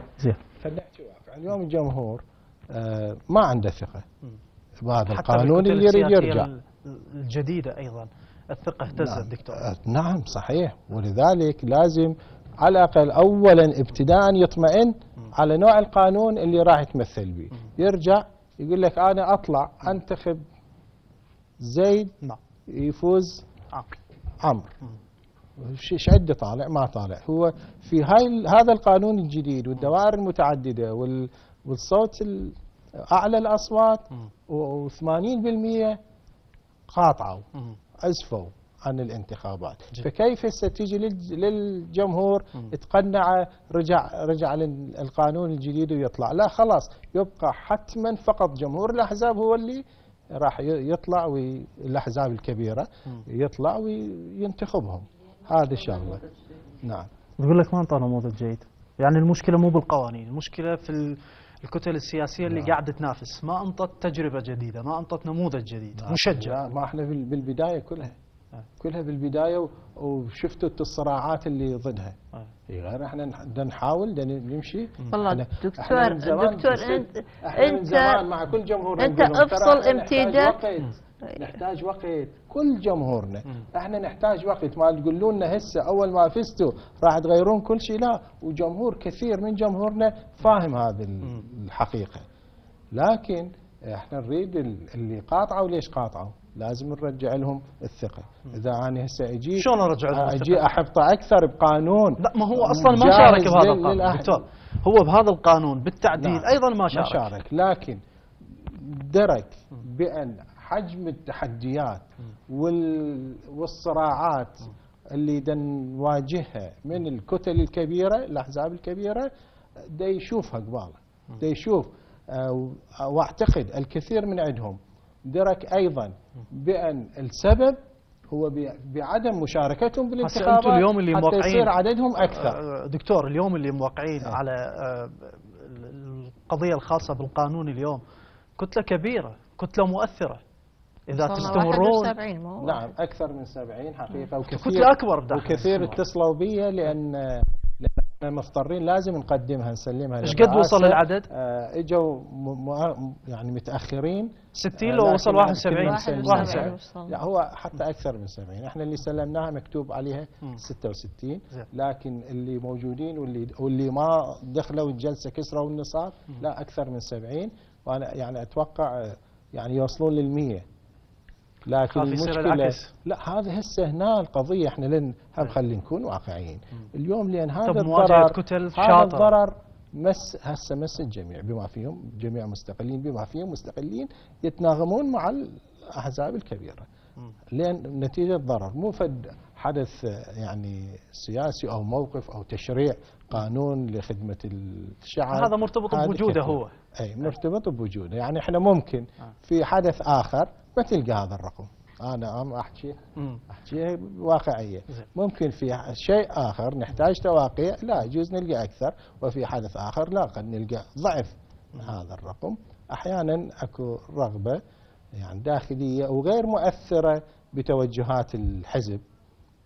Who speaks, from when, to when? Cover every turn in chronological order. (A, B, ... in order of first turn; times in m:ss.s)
0:00.5-0:04.1 A
0:04.8-0:06.5 A
0:05.1-0:09.7 B
0:08.9-0:20.4 A
0:21.6-0:22.1 A
0:22.7-0:23.5 A
0:24.4-0:24.8 A
0:25.6-0:36.0 A
0:36.9-0:37.5 A
0:38.0-0:49.8 A
0:50.4-0:56.3 A
0:56.8-0:57.1 A
0:57.4-1:06.6 B
1:02.4-1:02.8 A
1:05.9-1:08.2 A
1:08.8-1:12.2 A
1:12.7-1:32.2 A
1:15.1-1:18.2 C
1:19.0-1:20.6 C
1:32.9-1:44.4 A
1:39.6-1:40.7 B
1:42.2-1:47.3 B
1:46.2-1:59.3 A
1:59.8-2:07.8 A
2:08.3-2:12.6 A
2:10.2-2:18.0 B
2:18.6-2:20.4 B
2:21.1-2:22.2 B
2:21.1-2:22.9 C
2:22.6-2:50.6 A
2:24.4-2:26.0 B
2:30.2-2:31.3 B
2:34.6-2:36.8 B
2:35.8-2:37.2 C
2:51.7-3:06.9 A
2:51.9-2:52.9 B
2:57.6-2:59.4 B
3:07.5-3:34.6 A
3:15.3-3:16.8 B
3:35.2-3:39.0 A